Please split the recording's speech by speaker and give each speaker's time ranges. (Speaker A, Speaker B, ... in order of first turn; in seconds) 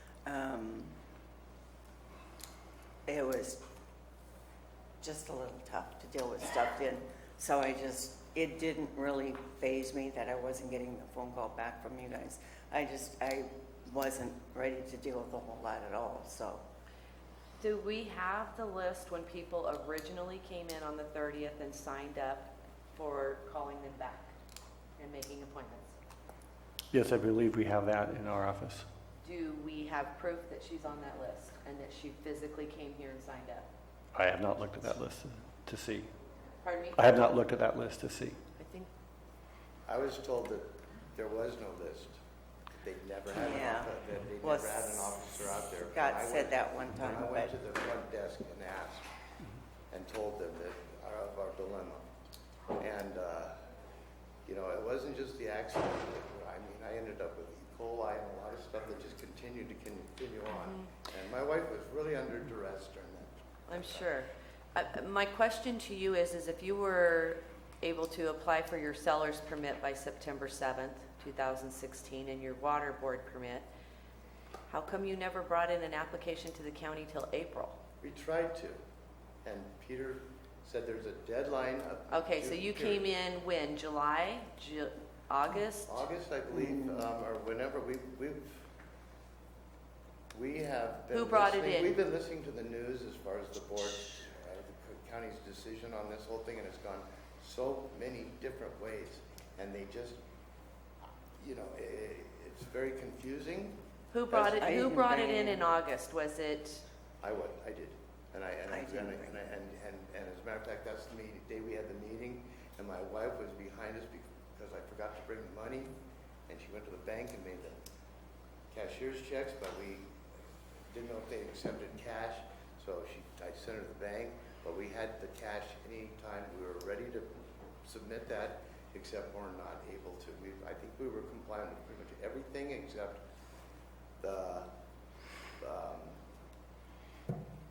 Speaker A: 0.2-0.9, 3.1-3.6, 5.0-16.6, 43.3-45.2, 45.9-47.5, 86.5-87.0, 104.3-105.6, 108.7-109.3
Speaker B: 17.6-24.3, 25.0-26.0, 29.2-33.6, 36.6-37.1, 38.6-38.9, 60.6-60.9, 63.7-73.7, 74.7-77.8, 82.1-85.9, 91.1-92.0, 104.1-106.8
Speaker C: 26.9-28.9, 34.1-36.1, 37.0-38.4
Speaker D: 39.9-42.2, 42.8-49.0, 49.9-52.0, 52.8-53.6, 54.5-64.1, 78.0-78.8, 79.4-83.1, 85.9-88.7, 90.3-100.2, 101.4-103.8, 107.2-115.9, 116.5-117.8, 118.7-120.1, 120.9-127.3, 127.8-133.2, 134.2-134.7, 135.6-136.2